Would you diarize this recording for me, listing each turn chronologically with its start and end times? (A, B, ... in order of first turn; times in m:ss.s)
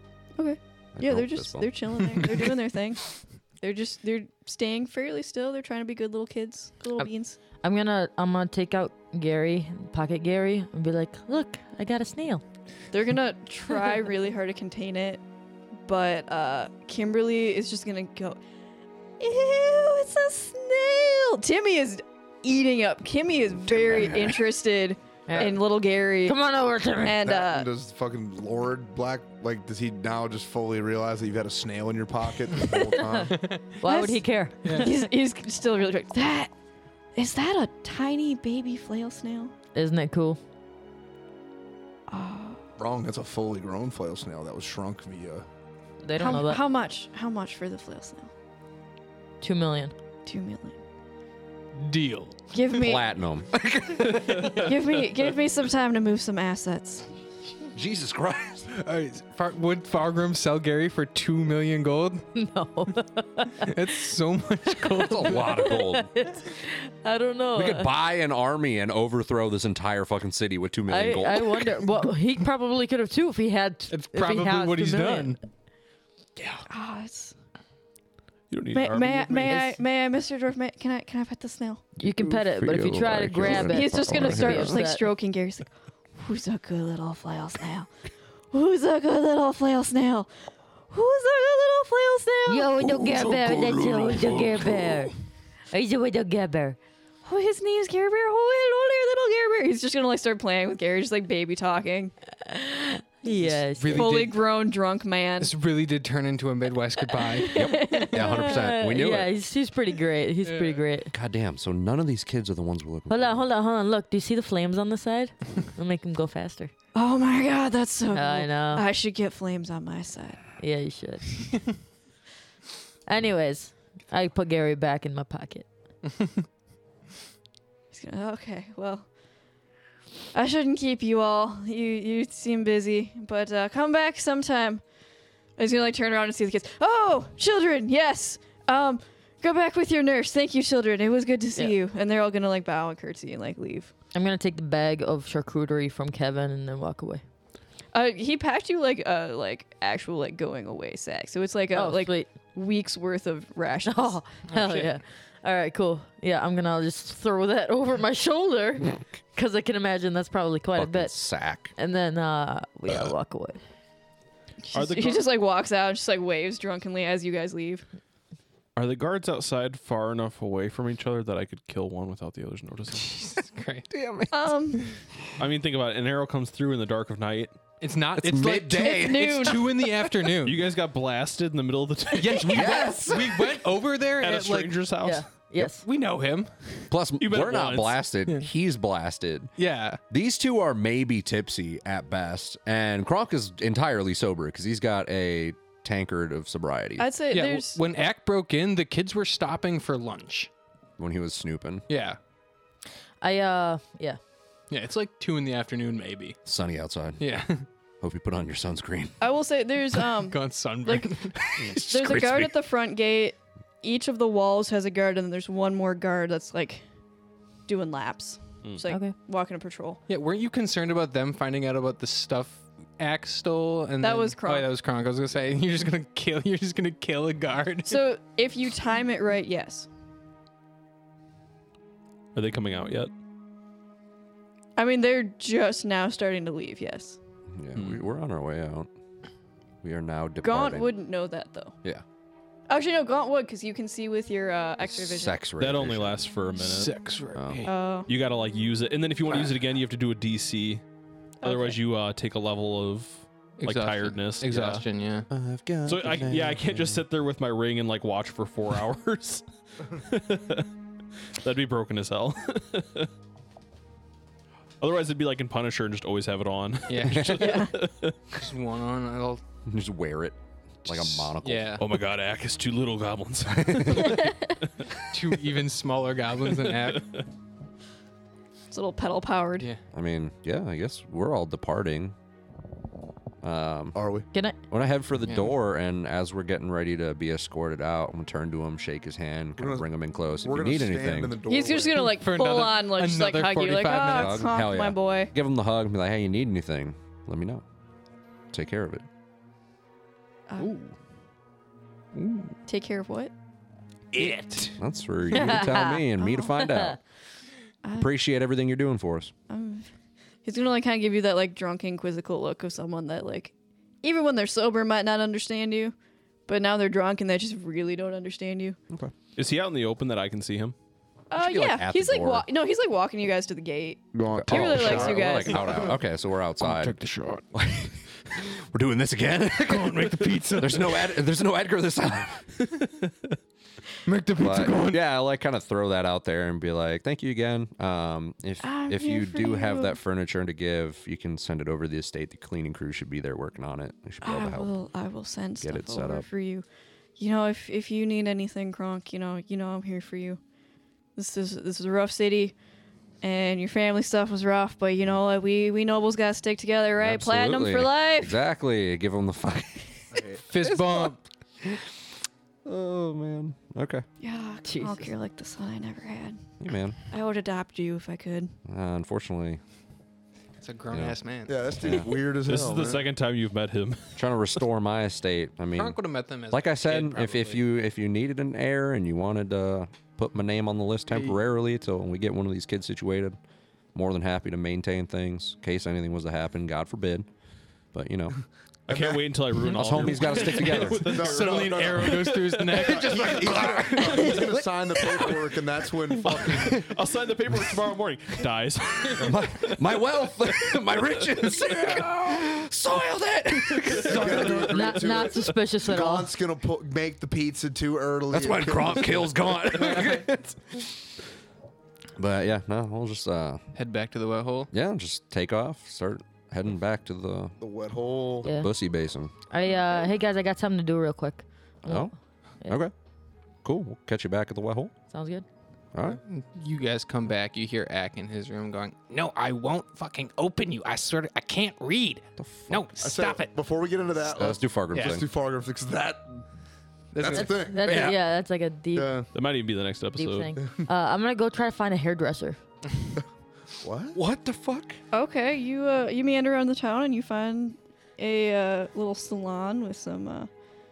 0:00.4-0:07.4 A
0:01.0-0:01.9 B
0:07.6-0:12.4 C
0:12.9-0:15.2 A
0:15.8-0:18.4 A
0:19.2-0:26.4 A
0:23.7-0:24.4 B
0:25.3-0:25.6 C
0:26.2-0:27.2 C
0:27.0-0:27.7 A
0:27.1-0:33.4 D
0:33.0-0:33.3 C
0:33.3-0:33.7 E
0:33.8-0:35.1 C
0:33.8-0:36.5 A
0:34.6-0:34.9 E
0:37.1-0:39.5 A
0:39.7-0:40.4 C
0:42.1-0:42.6 A
0:42.8-0:45.5 D
0:46.0-0:46.6 C
0:46.2-0:48.3 A
0:49.4-0:49.9 C
0:50.2-0:50.8 A
0:51.7-0:52.4 E
0:52.5-0:53.1 A
0:52.7-0:54.5 B
0:54.4-0:54.7 F
0:54.4-0:57.1 A
0:57.7-0:58.7 B
0:58.7-1:02.2 E
1:02.3-1:03.7 C
1:03.6-1:05.6 E
1:04.9-1:06.1 B
1:05.2-1:07.9 C
1:07.5-1:11.7 B
1:10.9-1:15.4 C
1:13.9-1:15.4 E
1:16.7-1:17.3 A
1:18.5-1:19.6 F
1:18.7-1:21.9 A
1:19.5-1:19.8 C
1:22.0-1:25.1 C
1:22.0-1:24.9 B
1:23.6-1:27.9 A
1:28.5-1:30.3 A
1:30.9-1:32.8 A
1:32.5-1:35.1 C
1:32.8-1:34.9 B
1:35.7-1:36.8 C
1:37.2-1:42.1 A
1:42.4-1:44.2 C
1:43.3-1:44.4 E
1:43.9-1:45.5 A
1:45.4-1:47.6 E
1:47.4-1:51.1 C
1:47.5-1:49.3 B
1:47.8-1:48.1 A
1:50.4-1:50.8 E
1:51.1-1:53.4 B
1:53.1-1:56.7 C
1:56.9-2:00.4 A
1:58.1-1:58.8 C
2:00.6-2:01.6 C
2:03.1-2:05.7 C
2:07.9-2:09.1 A
2:10.3-2:14.8 A
2:15.6-2:23.9 A
2:24.1-2:27.2 C
2:27.9-2:34.2 A
2:31.7-2:32.3 C
2:33.8-2:41.1 C
2:34.5-2:34.9 E
2:40.8-2:41.7 B
2:41.7-2:43.6 C
2:44.7-2:47.8 A
2:44.7-2:45.2 F
2:48.8-2:53.4 F
2:53.0-2:53.9 E
2:53.9-2:54.8 B
2:54.3-2:54.9 A
2:55.4-2:57.6 F
2:57.8-3:00.6 E
2:58.2-2:59.6 B
2:58.8-2:59.9 A
3:00.4-3:03.0 F
3:02.2-3:04.8 E
3:02.4-3:03.6 B
3:04.2-3:05.3 F
3:05.0-3:05.8 C
3:05.7-3:06.9 E
3:06.9-3:09.5 B
3:07.2-3:08.0 F
3:09.6-3:10.0 E
3:10.1-3:17.1 B
3:17.0-3:17.8 A
3:17.3-3:20.5 E
3:21.0-3:21.8 B
3:21.9-3:22.2 E
3:23.2-3:24.2 C
3:24.7-3:26.4 E
3:26.4-3:27.5 B
3:27.2-3:27.6 E
3:28.0-3:29.2 B
3:29.2-3:31.2 A
3:30.3-3:31.3 E
3:31.4-3:32.6 B
3:31.8-3:36.8 A
3:37.6-3:40.0 A
3:38.9-3:39.1 C
3:40.1-3:48.0 E
3:44.0-3:44.7 A
3:47.9-3:49.9 A
3:52.3-3:53.1 F
3:54.8-3:57.2 A
3:57.6-3:58.9 B
3:59.8-4:00.9 B
4:00.4-4:01.8 A
4:02.7-4:05.4 A
4:04.8-4:06.2 B
4:05.6-4:07.0 F
4:06.6-4:07.7 E
4:07.3-4:07.7 B
4:07.6-4:08.1 A
4:08.1-4:10.8 F
4:11.4-4:11.8 A
4:11.4-4:14.8 F
4:13.6-4:15.3 E
4:15.3-4:17.0 B
4:15.8-4:20.7 F
4:21.4-4:23.1 F
4:24.8-4:28.2 F
4:26.9-4:27.6 E
4:27.4-4:27.7 A
4:28.3-4:29.4 E
4:29.7-4:31.8 B
4:31.4-4:31.8 E
4:31.8-4:34.5 F
4:33.5-4:34.2 B
4:35.1-4:37.1 E
4:36.5-4:37.2 F
4:38.7-4:39.7 A
4:39.9-4:42.1 B
4:43.4-4:44.0 B
4:43.9-4:44.3 D
4:44.7-4:51.4 B
4:49.6-4:49.8 D
4:50.4-4:52.1 D
4:51.5-4:55.3 A
4:52.1-4:54.5 E
4:54.0-4:57.6 B
4:58.5-4:59.0 B
5:00.5-5:00.8 A
5:02.1-5:02.6 E
5:02.6-5:03.3 A
5:04.1-5:04.8 E
5:04.7-5:07.0 B
5:05.3-5:06.7 A
5:05.4-5:05.6 E
5:05.4-5:06.0 C
5:06.6-5:06.9 C
5:07.8-5:08.1 A
5:08.0-5:09.3 B
5:09.5-5:09.9 A
5:10.4-5:15.9 A
5:16.5-5:18.8 A
5:19.4-5:20.7 F
5:21.3-5:25.9 A
5:21.3-5:22.4 B
5:24.1-5:25.9 D
5:24.3-5:27.0 B
5:26.7-5:27.4 D
5:27.5-5:32.9 B
5:29.7-5:31.1 E
5:34.0-5:35.0 D
5:34.4-5:44.7 B
5:38.6-5:40.0 A
5:44.2-5:46.6 A
5:45.6-5:46.3 B
5:47.2-5:50.4 A
5:51.2-5:52.5 A
5:53.2-5:58.4 A
5:57.0-6:01.1 B
6:00.1-6:00.4 D
6:00.4-6:01.2 E
6:01.6-6:01.9 B
6:02.6-6:04.0 B
6:04.2-6:06.4 A
6:04.6-6:05.1 C
6:06.6-6:07.0 B
6:07.1-6:08.6 A
6:08.7-6:09.6 B
6:10.6-6:11.7 E
6:10.9-6:11.2 B
6:11.5-6:13.1 D
6:11.8-6:12.1 B
6:12.4-6:14.4 F
6:14.2-6:16.0 B
6:15.7-6:17.6 E
6:16.5-6:23.4 B
6:23.9-6:27.3 B
6:27.9-6:28.4 B
6:28.9-6:34.3 F
6:28.9-6:29.2 D
6:29.7-6:31.2 B
6:30.9-6:36.8 D
6:31.0-6:34.3 E
6:34.4-6:35.3 B
6:36.1-6:39.8 F
6:36.5-6:36.9 B
6:39.2-6:45.4 B
6:41.5-6:42.1 F
6:43.9-6:44.5 F
6:43.9-6:49.2 D
6:44.6-6:46.3 C
6:48.3-6:50.9 B
6:49.7-6:50.2 E
6:52.2-6:53.6 B
6:53.7-6:54.7 E
6:54.7-6:57.6 B
6:57.6-6:58.4 D
6:58.4-6:59.3 B
6:58.4-6:58.7 C
6:59.5-7:02.1 C
7:01.8-7:02.1 B
7:02.6-7:02.9 B
7:03.6-7:04.9 B
7:05.1-7:05.4 C
7:05.9-7:06.2 B
7:06.2-7:13.5 E
7:12.4-7:12.9 B
7:13.0-7:16.4 D
7:14.3-7:15.2 B
7:17.1-7:17.7 E
7:17.2-7:18.0 D
7:17.3-7:19.3 C
7:17.8-7:18.2 B
7:18.9-7:19.3 D
7:19.3-7:20.5 F
7:20.2-7:22.6 C
7:20.6-7:20.9 D
7:23.8-7:24.2 D
7:24.1-7:25.0 B
7:25.1-7:30.5 A